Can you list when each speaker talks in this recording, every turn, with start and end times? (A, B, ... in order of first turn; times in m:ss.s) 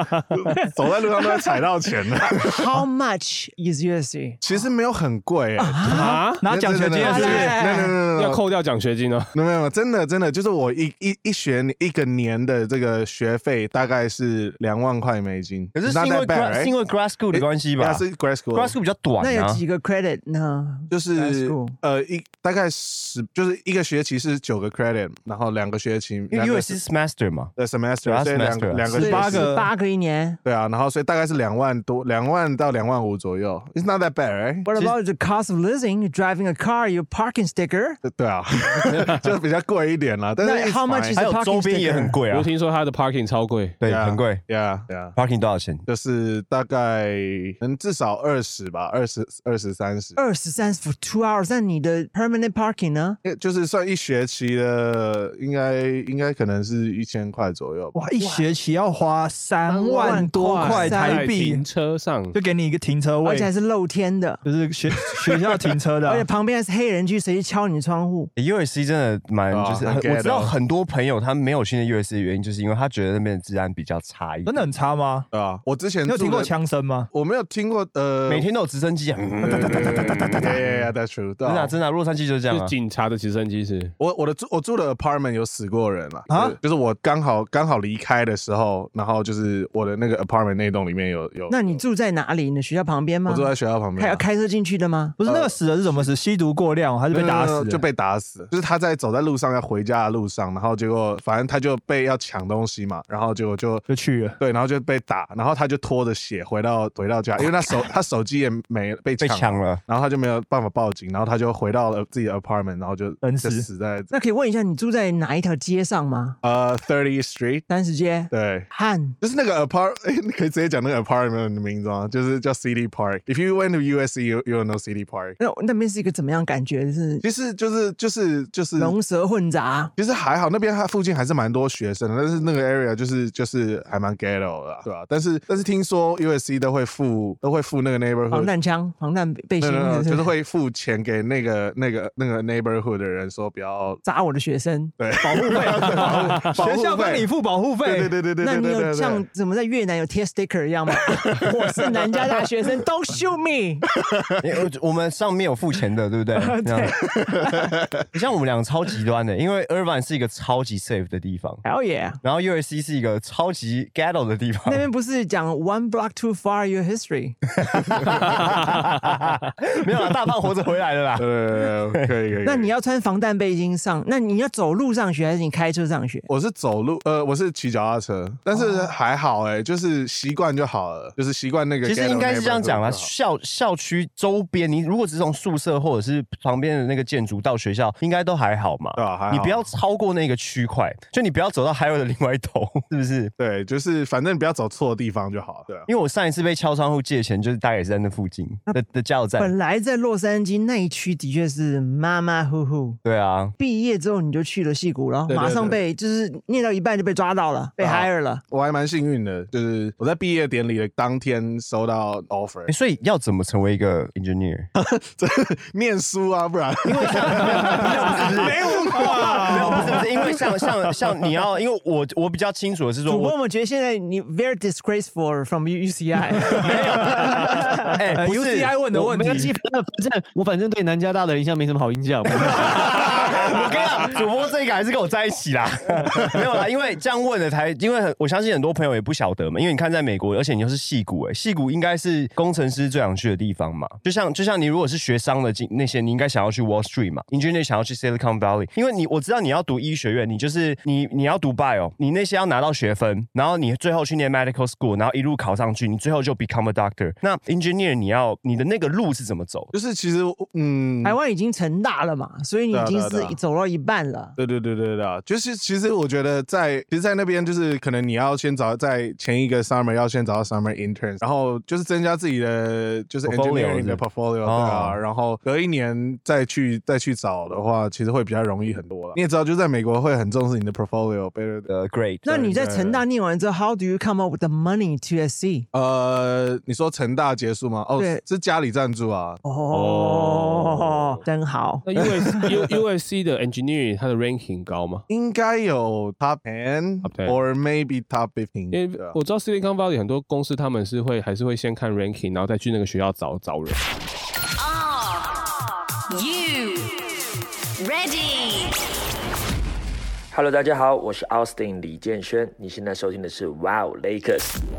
0:00.3-0:02.5 A
0:01.2-0:01.5 B
0:02.2-0:04.6 B
0:04.4-0:08.4 A
0:05.6-0:06.3 B
0:05.8-0:06.4 C
0:06.4-0:07.6 D
0:07.0-0:08.0 B
0:08.1-0:09.3 C
0:09.3-0:16.8 A
0:15.7-0:19.6 E
0:17.3-0:18.8 A
0:19.2-0:21.8 B
0:20.9-0:26.8 A
0:26.3-0:27.5 E
0:27.6-0:29.5 A
0:28.0-0:29.0 E
0:28.9-0:29.7 D
0:29.0-0:30.4 B
0:30.4-0:34.7 A
0:34.6-0:38.0 B
0:38.0-0:41.2 A
0:40.4-0:42.2 B
0:41.2-0:42.5 E
0:42.3-0:43.8 C
0:43.8-0:44.4 E
0:43.8-0:45.2 A
0:45.1-0:45.8 E
0:45.8-0:50.2 A
0:50.2-0:53.2 B
0:53.2-0:58.0 A
0:57.9-1:01.6 D
0:58.2-0:58.5 B
0:59.7-1:02.4 C
0:59.8-1:01.3 B
1:02.3-1:03.5 D
1:03.2-1:04.4 B
1:04.4-1:06.3 D
1:06.0-1:08.3 B
1:08.4-1:14.7 E
1:09.5-1:10.5 A
1:14.5-1:15.3 D
1:15.3-1:16.5 A
1:16.1-1:17.1 D
1:17.1-1:18.5 A
1:18.3-1:20.9 E
1:19.4-1:21.8 A
1:21.4-1:22.7 E
1:22.5-1:23.9 C
1:24.0-1:31.8 A
1:26.3-1:26.6 D
1:31.5-1:35.2 B
1:33.3-1:34.2 A
1:35.2-1:37.8 D
1:35.2-1:36.1 A
1:37.1-1:43.9 A
1:43.9-1:44.4 D
1:44.4-1:54.1 A
1:49.2-1:49.8 E
1:53.2-1:53.7 D
1:54.1-1:56.4 B
1:56.4-1:57.7 A
1:57.7-1:59.2 B
1:58.3-1:58.7 A
1:59.2-2:05.4 A
2:05.4-2:07.2 B
2:07.2-2:09.0 A
2:08.8-2:09.9 B
2:10.0-2:18.5 A
2:18.3-2:20.3 B
2:19.6-2:24.0 A
2:24.0-2:25.0 B
2:25.0-2:27.3 A
2:25.1-2:28.2 D
2:27.8-2:29.2 A
2:28.4-2:33.9 B
2:34.4-2:37.0 E
2:36.4-2:37.0 B
2:38.1-2:41.6 E
2:41.6-2:42.2 B
2:42.2-2:44.9 E
2:44.7-2:47.4 B
2:47.7-2:52.1 E
2:51.2-2:52.7 A
2:52.4-2:56.3 B
2:56.3-3:03.1 A
2:58.5-2:59.0 B
3:01.8-3:13.3 E
3:09.0-3:09.7 A
3:13.4-3:15.9 A
3:15.9-3:19.5 E
3:19.4-3:23.0 B
3:23.0-3:23.6 E
3:23.6-3:28.4 B
3:25.3-3:25.8 A
3:27.8-3:32.7 A
3:32.7-3:34.7 E
3:34.8-3:40.4 A
3:36.8-3:43.4 E
3:37.9-3:39.8 B
3:38.2-3:40.0 D
3:43.1-3:48.0 B
3:46.6-3:48.8 E
3:46.7-3:47.1 D
3:48.1-3:49.6 D
3:48.9-3:53.2 F
3:52.5-4:19.7 E
4:19.7-4:21.2 A
4:21.0-4:24.4 B
4:22.7-4:23.4 A
4:24.4-4:41.7 A
4:33.2-4:35.0 E
4:41.7-4:42.4 E
4:42.2-4:45.7 B
4:42.3-4:43.0 A
4:45.7-4:49.4 A
4:48.0-4:48.2 B
4:49.4-4:52.5 B
4:49.7-4:51.2 C
4:51.8-4:55.0 C
4:55.1-4:59.2 A
4:57.0-4:57.4 C
4:58.7-5:03.8 C
5:04.6-5:05.2 G
5:06.1-5:06.9 G
5:07.8-5:08.7 G
5:10.3-5:14.6 H